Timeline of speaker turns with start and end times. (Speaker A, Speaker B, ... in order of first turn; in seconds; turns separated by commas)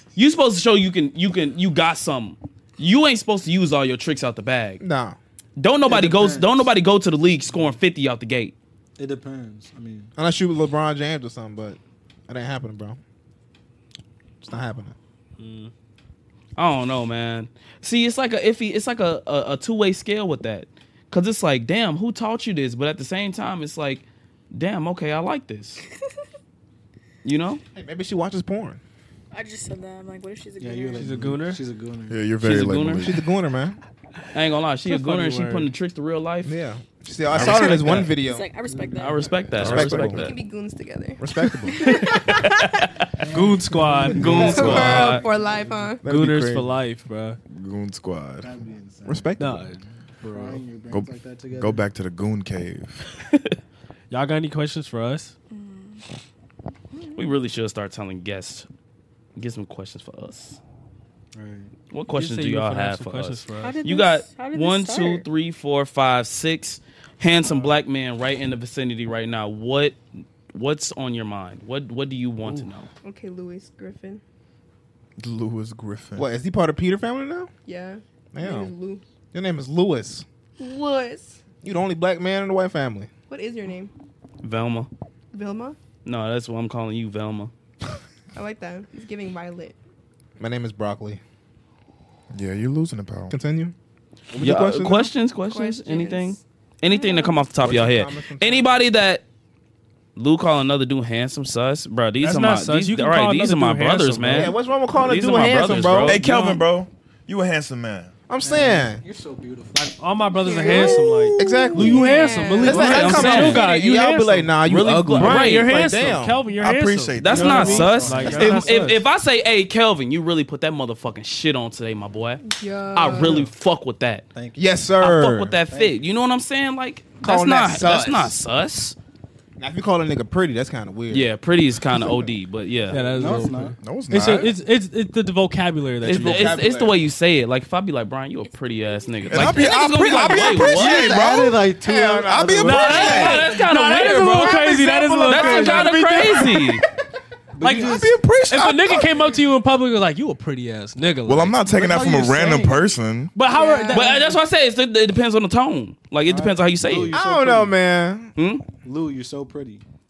Speaker A: 0.1-4.8, Speaker B: 4.8-5.2, Speaker A: 5.6-8.5, Speaker C: 5.8-6.7, Speaker C: 7.5-7.8, Speaker C: 9.0-10.1, Speaker B: 10.2-13.0, Speaker B: 14.4-14.9, Speaker D: 15.4-15.7, Speaker A: 16.6-25.8, Speaker A: 27.2-27.6, Speaker B: 27.8-28.8, Speaker E: 29.3-31.1, Speaker C: 30.6-32.3, Speaker D: 31.0-31.6, Speaker F: 32.1-33.2, Speaker A: 32.4-33.1, Speaker B: 33.0-33.8, Speaker A: 34.3-36.5, Speaker D: 34.9-35.7, Speaker B: 36.4-38.5, Speaker F: 37.3-38.1, Speaker A: 37.4-38.1, Speaker E: 38.2-39.3, Speaker C: 38.6-39.3, Speaker A: 39.0-40.4, Speaker F: 39.6-40.3, Speaker B: 39.6-40.3, Speaker G: 40.1-42.8, Speaker B: 41.2-42.1, Speaker A: 42.1-43.0, Speaker C: 43.2-46.0, Speaker D: 43.3-45.1, Speaker A: 44.1-45.3, Speaker B: 44.4-45.2, Speaker G: 44.4-46.0, Speaker F: 44.6-45.0, Speaker D: 46.0-47.4, Speaker B: 46.0-46.7, Speaker F: 47.5-48.5, Speaker C: 48.4-49.5, Speaker B: 49.1-49.6, Speaker D: 49.4-49.8, Speaker C: 50.2-51.9, Speaker F: 50.9-53.0, Speaker D: 54.1-55.3, Speaker E: 55.5-56.0, Speaker E: 56.9-57.3, Speaker A: 57.2-58.7, Speaker A: 59.4-60.6, Speaker C: 61.3-61.7, Speaker A: 61.9-70.0, Speaker D: 62.1-63.8, Speaker E: 63.6-65.2, Speaker A: 70.5-72.9, Speaker G: 73.0-74.2, Speaker F: 75.2-76.3, Speaker B: 76.2-77.5, Speaker G: 77.7-79.0, Speaker B: 78.3-78.7, Speaker B: 79.3-80.2, Speaker G: 80.6-81.4, Speaker B: 81.6-83.1, Speaker G: 83.3-83.9, Speaker A: 84.4-84.9, Speaker G: 85.3-85.8, Speaker A: 86.0-87.5, Speaker G: 88.3-89.8, Speaker B: 90.4-91.2, Speaker F: 92.3-93.3, Speaker B: 93.3-93.7, Speaker B: 94.3-95.1, Speaker A: 94.4-99.2, Speaker G: 95.5-96.4, Speaker E: 96.9-97.4, Speaker B: 97.6-98.7, Speaker A: 100.2-106.6, Speaker D: 102.2-104.6, Speaker B: 104.3-106.2, Speaker F: 106.0-108.1, Speaker D: 106.2-106.6, Speaker B: 108.3-109.0, Speaker C: 108.4-111.0, Speaker D: 109.8-119.0, Speaker G: 110.4-112.8, Speaker B: 111.4-116.4, Speaker A: 112.6-113.6, Speaker A: 114.7-115.7, Speaker F: 116.6-118.4, Speaker A: 117.2-122.4, Speaker C: 117.3-118.7, Speaker G: 122.4-123.5, Speaker A: 122.9-124.2, Speaker C: 123.1-123.5, Speaker C: 124.3-124.8, Speaker B: 124.6-125.6, Speaker A: 125.0-129.0, Speaker C: 125.7-126.0, Speaker B: 127.2-128.4, Speaker B: 129.6-131.3, Speaker A: 131.1-133.1, Speaker D: 132.9-136.6, Speaker C: 133.0-133.8, Speaker F: 133.8-134.5, Speaker A: 136.0-141.0, Speaker B: 136.0-137.0, Speaker E: 138.5-139.2, Speaker F: 139.3-141.5, Speaker B: 139.3-143.6, Speaker C: 140.7-143.4, Speaker D: 142.6-146.6, Speaker A: 142.8-146.8, Speaker B: 145.4-145.8, Speaker C: 147.5-148.2, Speaker D: 147.6-151.6, Speaker F: 147.9-149.3, Speaker F: 151.3-153.3, Speaker C: 151.6-153.0, Speaker D: 153.3-154.4, Speaker G: 153.5-154.2, Speaker A: 153.9-157.2, Speaker C: 156.3-157.8, Speaker B: 157.1-158.3, Speaker A: 158.4-158.7, Speaker C: 158.8-159.8